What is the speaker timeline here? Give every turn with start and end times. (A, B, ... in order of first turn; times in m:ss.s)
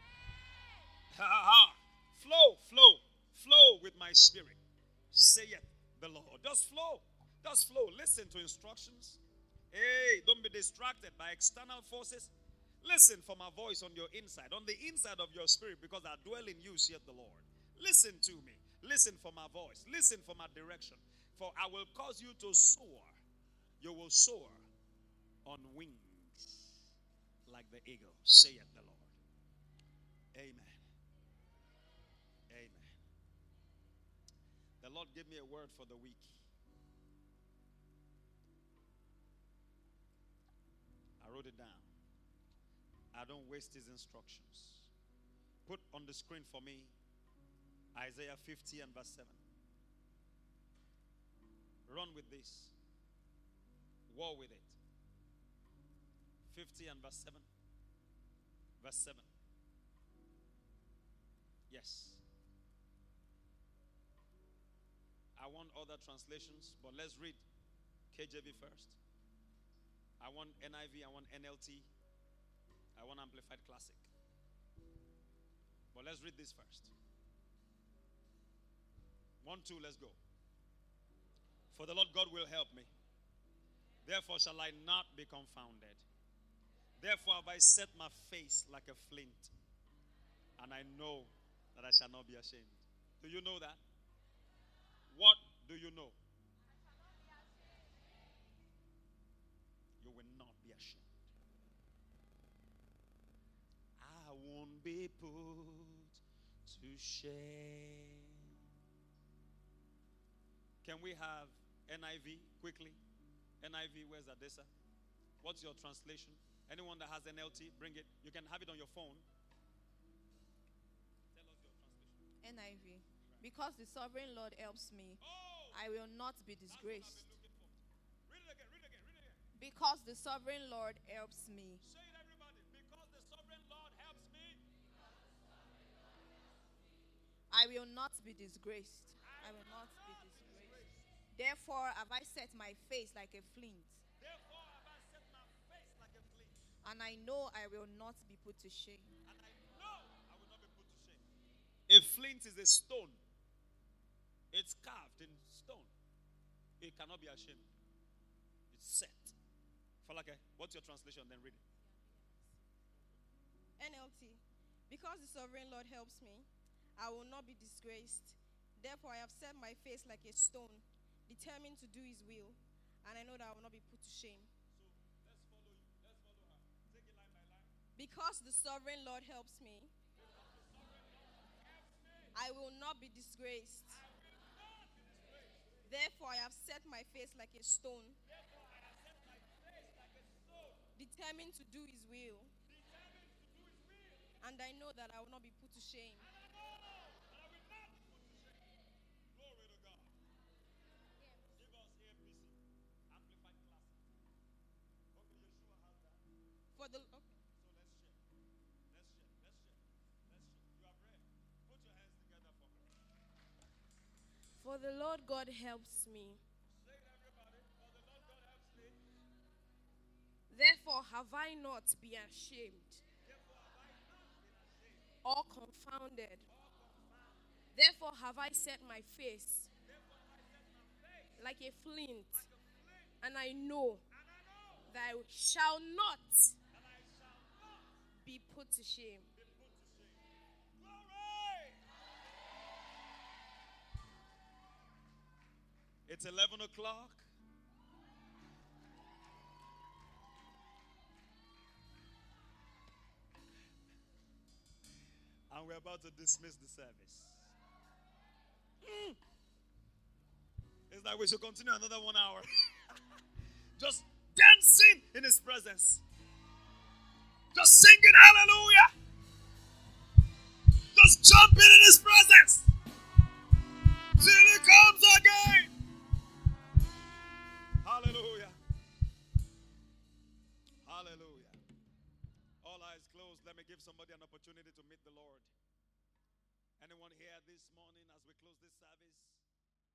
0:01.1-0:04.6 A
0:05.1-0:09.2 A
0:09.7-0:23.2 A
0:23.8-0:24.6 A
0:25.4-0:26.7 A
0:27.5-0:29.1 A
0:30.3-0:30.8 A
0:32.5-0:33.0 A
0:34.8-0:36.4 A
0:41.2-0:41.9 A
0:43.1-0:44.9 A
0:45.6-0:46.9 A
0:47.9-0:49.4 A
0:51.8-0:52.7 A
0:54.1-0:54.8 A
0:56.5-0:57.4 A
0:58.8-0:59.3 A
1:01.7-1:02.2 A
1:05.4-1:07.4 A
1:08.1-1:09.0 A
1:10.2-1:11.9 A
1:13.0-1:14.1 A
1:15.9-1:16.9 A
1:19.4-1:20.2 A
1:21.7-1:22.9 A
1:24.0-1:26.0 A
1:27.0-1:29.5 A
1:30.6-1:33.8 A
1:35.1-1:36.2 A
1:40.0-1:41.1 A
1:44.0-1:48.6 A
1:50.8-1:53.0 A
1:53.6-1:54.7 A
1:55.4-1:59.2 A
2:01.3-2:02.2 A
2:02.4-2:07.3 B
2:05.2-2:05.8 A
2:06.7-2:09.4 A
2:09.5-2:11.8 B
2:11.8-2:14.6 A
2:17.5-2:24.0 B
2:19.2-2:21.0 A
2:24.2-2:26.5 A
2:26.8-2:29.1 B
2:29.2-2:31.2 A
2:31.9-2:33.2 A
2:34.5-2:35.9 A
2:36.8-2:37.6 A
2:38.7-2:39.3 A
2:40.0-2:41.6 A
2:43.8-2:46.4 C
2:47.0-2:54.5 C
2:54.7-2:57.7 A
2:58.0-2:59.9 C
3:00.2-3:02.3 A
3:02.3-3:04.0 C
3:03.9-3:05.8 A
3:05.8-3:08.2 C
3:08.3-3:10.8 A
3:11.0-3:12.5 C
3:12.6-3:14.2 A
3:14.4-3:16.3 C
3:16.2-3:18.6 A
3:19.3-3:20.1 A
3:21.6-3:22.6 A
3:23.1-3:24.1 A
3:25.1-3:26.2 A
3:26.8-3:27.4 C
3:27.6-3:28.2 A
3:28.9-3:32.9 A
3:34.6-3:36.4 C
3:36.8-3:39.0 A
3:40.5-3:43.0 C
3:43.2-3:45.0 A
3:45.2-3:46.4 C
3:46.5-3:47.3 A
3:47.7-3:49.7 C
3:49.8-3:51.5 A
3:51.4-3:52.4 C
3:52.3-3:53.1 A
3:53.2-3:54.0 C
3:54.2-3:54.9 A
3:54.9-3:56.5 C
3:56.7-3:57.9 A
3:58.2-3:59.2 C
3:59.3-4:00.2 A
4:00.7-4:01.8 A
4:06.1-4:07.2 A
4:15.5-4:17.5 A
4:18.8-4:19.2 A
4:20.9-4:23.0 A
4:23.8-4:26.0 A
4:27.5-4:28.9 A
4:30.9-4:32.7 A
4:34.2-4:35.7 A
4:37.8-4:38.6 A
4:40.8-4:41.6 A
4:42.6-4:45.5 A
4:46.8-4:49.4 A